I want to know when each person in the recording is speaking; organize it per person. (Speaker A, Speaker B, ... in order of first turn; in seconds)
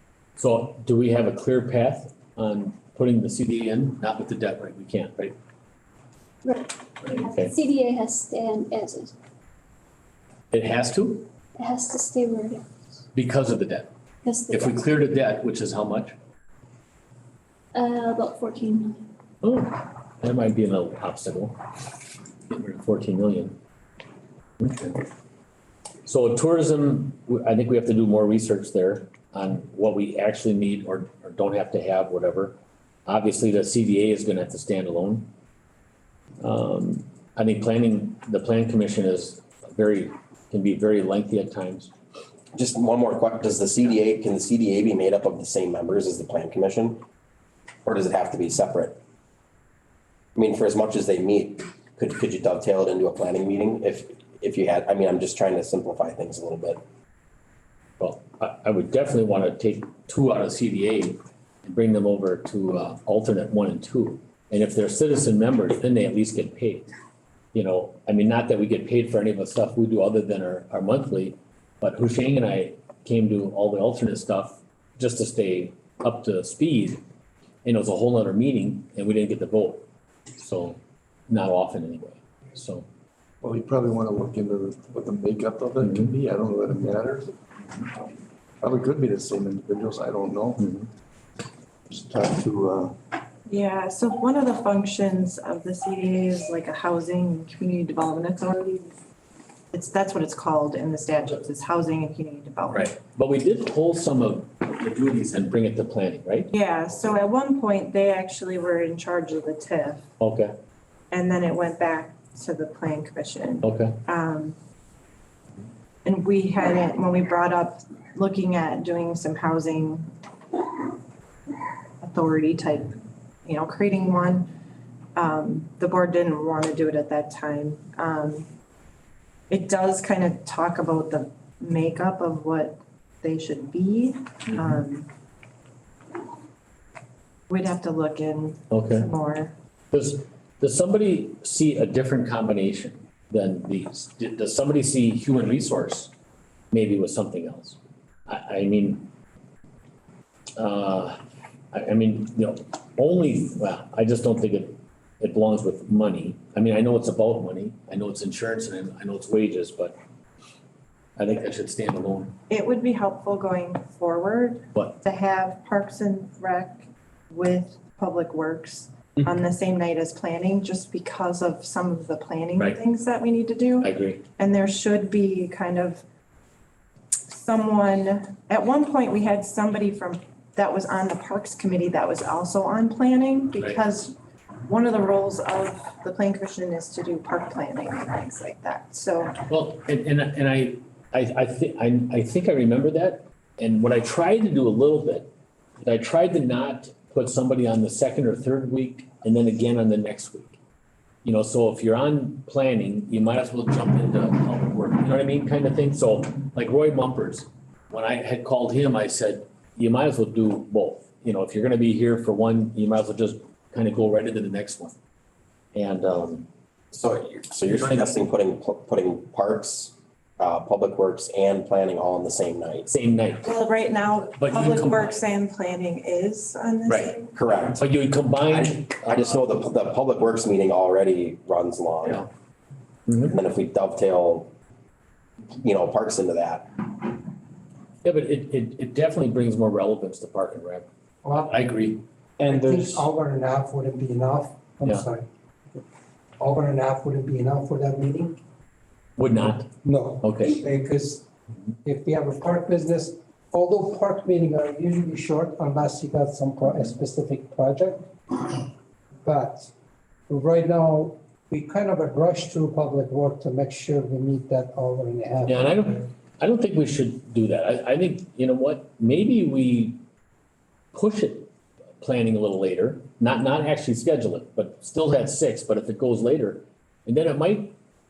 Speaker A: 0.4-5.3, 7.1-7.5, 10.5-11.3, 13.1-13.9, 14.5-16.1, 19.4-21.6, 22.5-23.6, 24.6-25.0, 26.1-35.3, 36.4-41.9, 58.0-66.9, 67.5-77.0, 77.6-79.8, 80.3-82.8, 85.8-86.1, 90.6-90.9, 102.7-106.5, 110.2-110.5, 113.6-114.0, 138.7-139.1, 139.9-146.1, 146.7-149.1, 150.6-151.2, 151.7-159.9, 161.2-162.3, 173.8-174.2, 189.5-195.3, 195.8-200.6, 201.2-214.9, 215.7-216.5, 217.7-218.2, 222.9-223.5, 224.4-225.2, 226.9-227.1, 227.7-229.4, 232.0-232.3, 233.1-233.4, 238.0-243.1, 249.2-250.6, 265.4-270.0, 270.9-277.7
Speaker B: 6.4-9.1, 11.6-12.6, 14.2-14.8, 17.7-19.1
Speaker C: 42.5-47.0, 47.8-49.0, 50.4-56.8, 216.9-222.9, 227.3-227.8, 228.5-232.2, 233.3-234.5, 235.6-236.9
Speaker D: 83.4-87.3, 88.6-90.7, 91.9-93.0
Speaker E: 93.5-98.9, 99.7-102.9, 106.5-110.0, 111.1-114.5, 116.0-120.9, 122.0-124.5, 125.2-128.5, 129.5-135.1, 137.5-139.5, 162.5-176.0, 177.3-184.1, 184.7-189.4, 223.4-227.3
Speaker F: 241.2-241.6, 242.4-245.8, 246.4-248.4, 249.8-251.2, 251.8-258.6, 259.2-259.7, 260.3-266.0